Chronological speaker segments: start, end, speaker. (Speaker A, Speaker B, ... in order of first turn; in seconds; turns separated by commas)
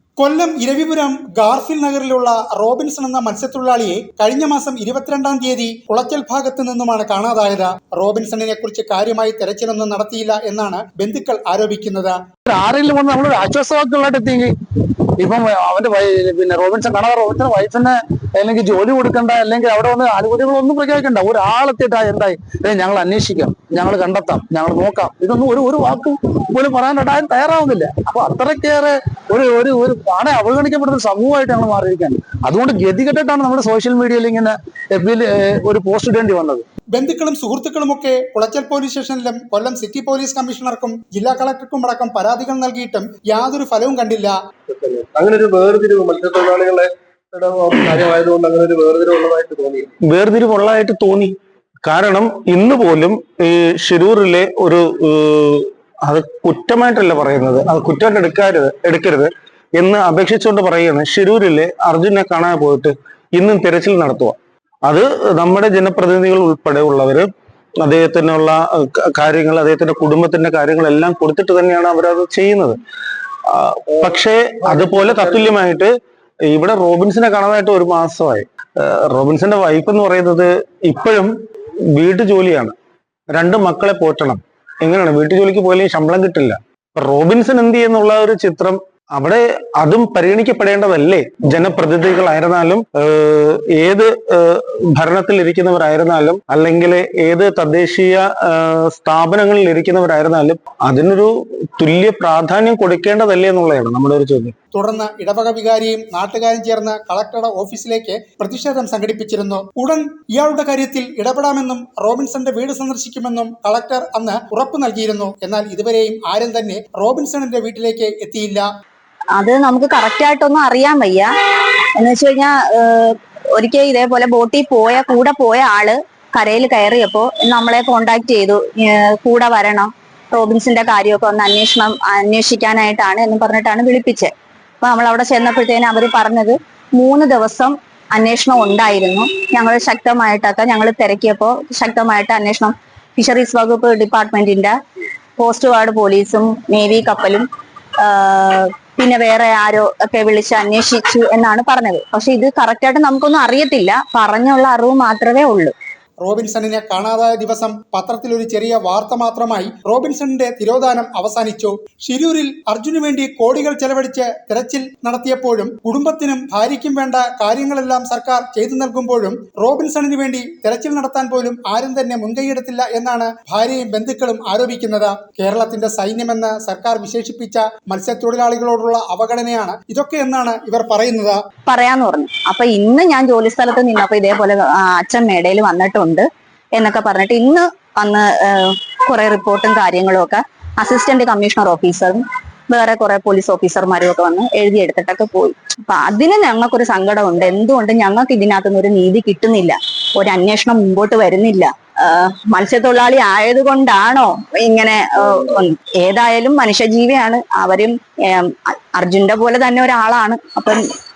Speaker A: 0.2-12.2, Speaker B: 12.5-14.6, Speaker B: 15.2-36.7, Speaker A: 36.9-44.4, Speaker C: 44.7-49.9, Speaker D: 50.1-67.3, Speaker D: 67.8-72.8, Speaker D: 73.5-75.9, Speaker C: 74.7-75.5, Speaker D: 76.5-81.3, Speaker D: 81.9-82.8, Speaker D: 83.3-104.5, Speaker A: 104.7-118.7, Speaker E: 119.3-121.3, Speaker E: 122.0-144.7, Speaker E: 145.4-147.5, Speaker E: 148.0-155.7, Speaker A: 156.2-181.4, Speaker E: 181.7-210.8